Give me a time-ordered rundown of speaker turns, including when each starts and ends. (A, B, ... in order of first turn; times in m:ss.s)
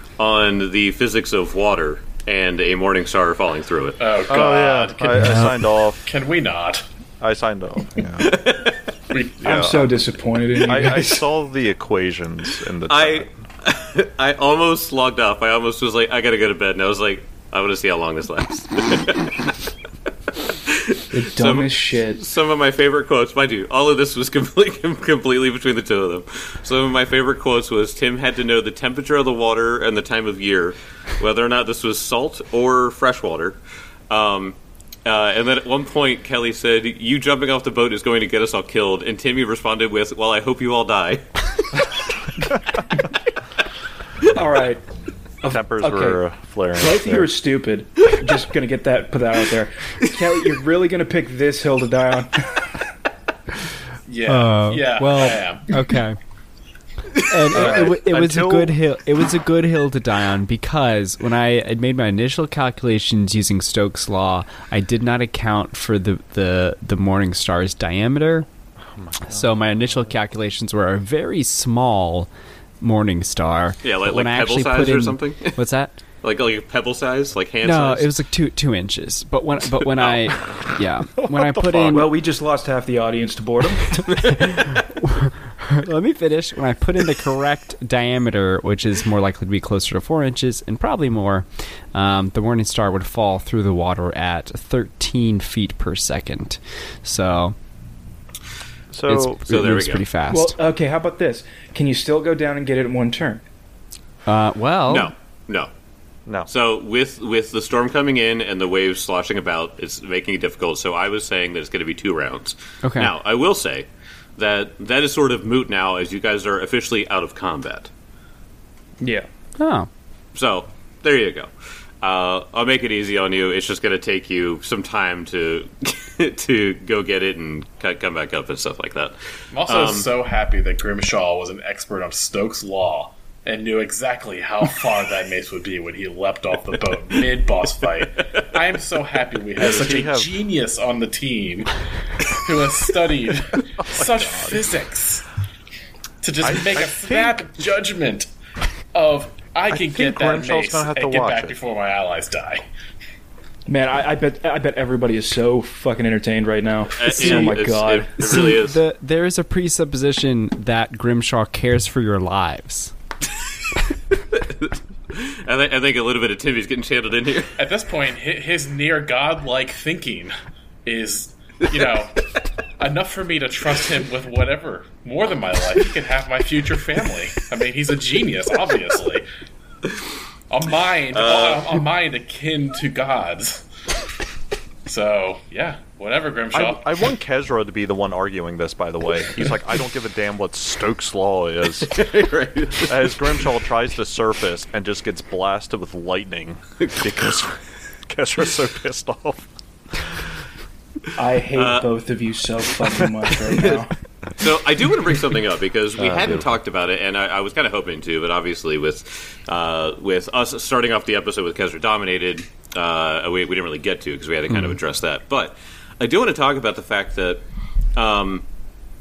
0:00.2-0:04.0 A
0:04.0-0:05.5 B
0:04.3-0:06.0 C
0:06.0-0:06.8 B
0:07.2-0:08.4 C
0:08.2-0:08.8 A
0:09.1-0:09.5 B
0:09.4-0:09.9 C
0:09.4-0:11.2 D
0:10.6-0:13.3 C
0:12.9-0:19.6 A
0:20.7-0:41.3 A
0:21.1-0:22.2 D
0:44.2-0:44.8 D
0:45.4-0:46.2 D
0:45.5-0:47.3 C
0:46.8-0:52.5 D
0:54.1-0:55.8 B
0:54.3-0:56.2 E
0:57.2-1:08.5 E
0:57.5-0:58.8 C
1:08.8-1:10.1 C
1:09.3-1:12.3 E
1:12.8-1:16.0 E
1:13.8-1:15.6 A
1:16.2-1:18.1 A
1:17.6-1:22.1 E
1:20.0-1:20.4 A
1:21.2-1:22.1 C
1:21.9-1:24.0 D
1:24.0-1:37.6 E
1:38.9-1:39.6 C
1:39.1-1:40.6 E
1:39.5-1:40.0 A
1:40.3-1:43.4 D
1:44.3-1:45.1 E
1:44.9-1:45.7 A
1:46.5-1:57.9 A
1:52.8-1:53.1 E
1:59.0-1:59.3 D
1:59.6-1:59.9 E
2:00.3-2:10.1 A
2:09.5-2:21.7 B
2:19.6-2:20.3 C
2:22.3-2:25.3 B
2:23.8-2:24.6 C
2:26.2-2:28.3 B
2:26.4-2:27.4 C
2:28.9-2:32.6 B
2:29.7-2:31.6 C
2:33.7-2:38.5 D
2:37.0-2:38.8 A
2:37.2-2:37.6 E
2:38.2-2:42.9 E
2:44.3-2:47.6 A
2:47.6-2:50.3 B
2:50.8-2:52.2 B
2:52.8-2:59.3 B
3:00.5-3:03.6 B
3:01.1-3:01.8 A
3:04.9-3:06.9 B
3:06.5-3:12.0 C
3:11.8-3:13.3 A
3:12.8-3:20.2 C
3:16.8-3:17.1 A
3:21.2-3:23.9 D
3:21.5-3:21.9 A
3:23.5-3:23.8 A
3:24.4-3:37.4 A
3:26.0-3:26.5 C
3:38.0-3:38.4 A